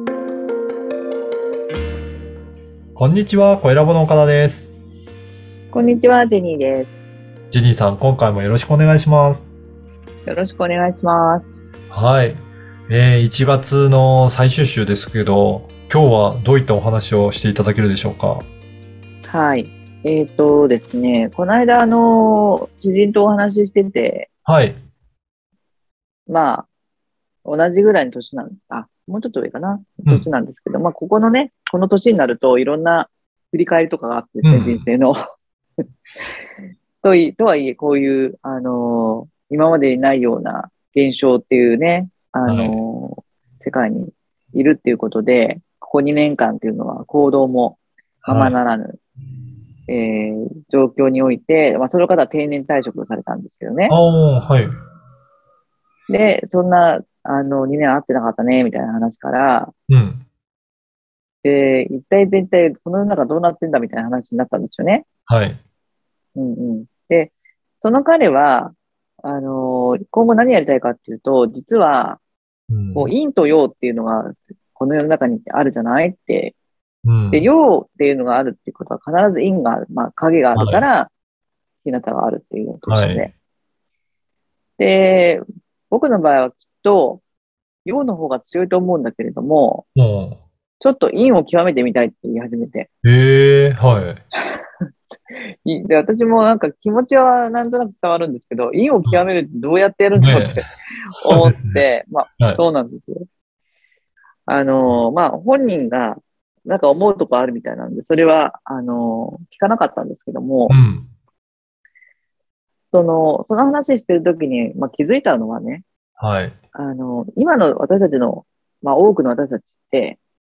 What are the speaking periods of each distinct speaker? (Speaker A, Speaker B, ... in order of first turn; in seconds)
Speaker A: 3.0-4.7, 7.5-9.5, 11.9-18.5, 24.4-24.8, 34.4-34.9, 42.5-42.8, 48.2-48.6, 53.9-54.7, 59.9-60.2, 65.3-65.6, 72.7-73.1, 77.0-77.5, 80.5-80.8, 82.9-83.3, 90.0-90.4, 93.0-94.2, 100.2-100.6, 101.2-101.9, 110.7-111.1, 116.2-116.6
Speaker B: 5.7-6.9, 10.3-11.6, 19.3-24.3, 26.3-26.7, 27.4-35.2, 37.0-49.0, 49.9-54.0, 56.1-59.7, 61.4-65.1, 66.4-72.2, 73.0-76.5, 77.3-81.1, 81.8-83.3, 84.8-87.2, 87.8-89.9, 90.8-92.9, 94.4-94.6, 95.3-103.2, 104.5-110.8, 112.9-115.8, 116.8-120.2